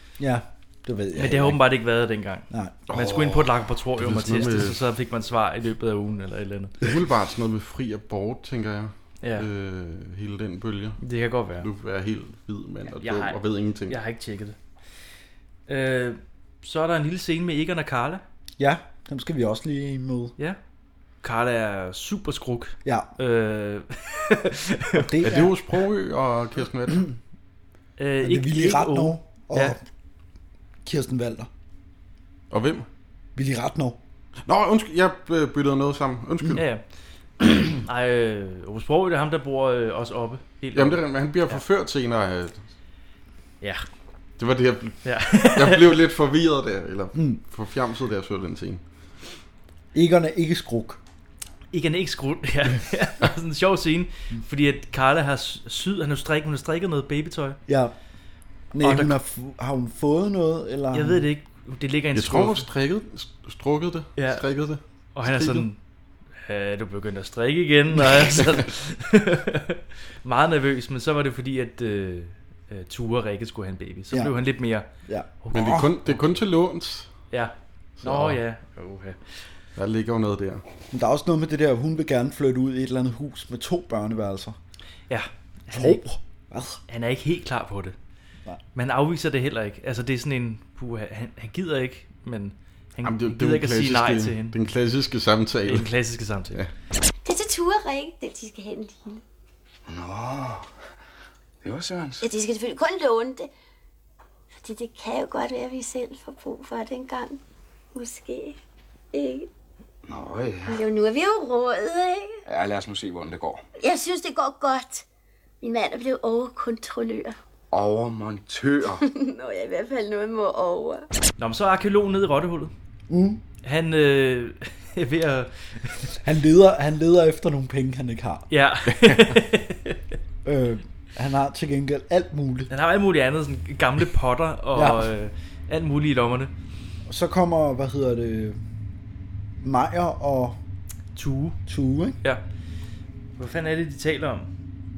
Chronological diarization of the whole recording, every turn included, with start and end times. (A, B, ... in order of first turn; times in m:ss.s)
0:00.2-0:01.6 A
0:01.1-0:06.7 B
0:02.5-0:02.8 A
0:02.9-0:04.8 C
0:06.8-0:11.0 C
0:11.0-0:11.7 B
0:11.6-0:14.0 C
0:12.9-0:14.6 B
0:15.7-0:18.2 B
0:18.6-0:20.3 A
0:21.2-0:25.3 B
0:24.9-0:25.5 A
0:25.2-0:27.1 C
0:28.0-0:29.7 B
0:28.2-0:29.8 A
0:30.8-0:31.5 A
0:32.5-0:32.9 C
0:33.4-0:34.0 A
0:34.4-0:36.6 C
0:36.6-0:36.8 B
0:37.6-0:41.6 B
0:40.7-0:42.6 C
0:44.4-0:48.8 C
0:45.0-0:45.9 B
0:47.1-0:47.4 A
0:49.9-0:51.0 A
0:51.7-0:57.6 B
0:57.7-0:57.9 A
0:58.7-1:01.2 A
0:58.8-0:59.1 B
1:00.9-1:02.7 B
1:02.1-1:05.7 C
1:04.2-1:04.4 B
1:05.1-1:05.8 B
1:06.4-1:14.9 B
1:14.1-1:14.4 A
1:15.0-1:15.8 A
1:15.4-1:15.8 B
1:15.5-1:17.1 C
1:17.3-1:19.4 B
1:18.0-1:18.4 C
1:19.8-1:20.6 C
1:20.9-1:24.6 A
1:25.1-1:26.0 B
1:25.7-1:26.8 A
1:26.9-1:28.0 B
1:28.7-1:34.5 B
1:33.0-1:35.9 C
1:35.7-1:36.6 B
1:37.2-1:39.2 D
1:39.9-1:40.5 E
1:41.6-1:42.1 E
1:42.2-1:43.5 D
1:44.6-1:47.4 D
1:47.9-1:48.6 D
1:49.1-1:49.5 D
1:50.1-1:50.7 E
1:50.7-1:52.4 D
1:52.5-1:53.6 E
1:53.8-1:55.0 D
1:55.6-1:57.4 D
1:57.7-1:59.0 E
1:59.0-2:01.0 D
2:01.4-2:02.7 B
2:03.1-2:03.4 A
2:03.6-2:06.2 B
2:06.2-2:08.5 A
2:08.5-2:10.0 B
2:10.4-2:12.7 A
2:12.7-2:16.5 B
2:14.7-2:15.1 A
2:17.1-2:18.6 A
2:19.6-2:20.6 A
2:21.1-2:21.6 B
2:21.7-2:22.2 A
2:23.4-2:24.5 B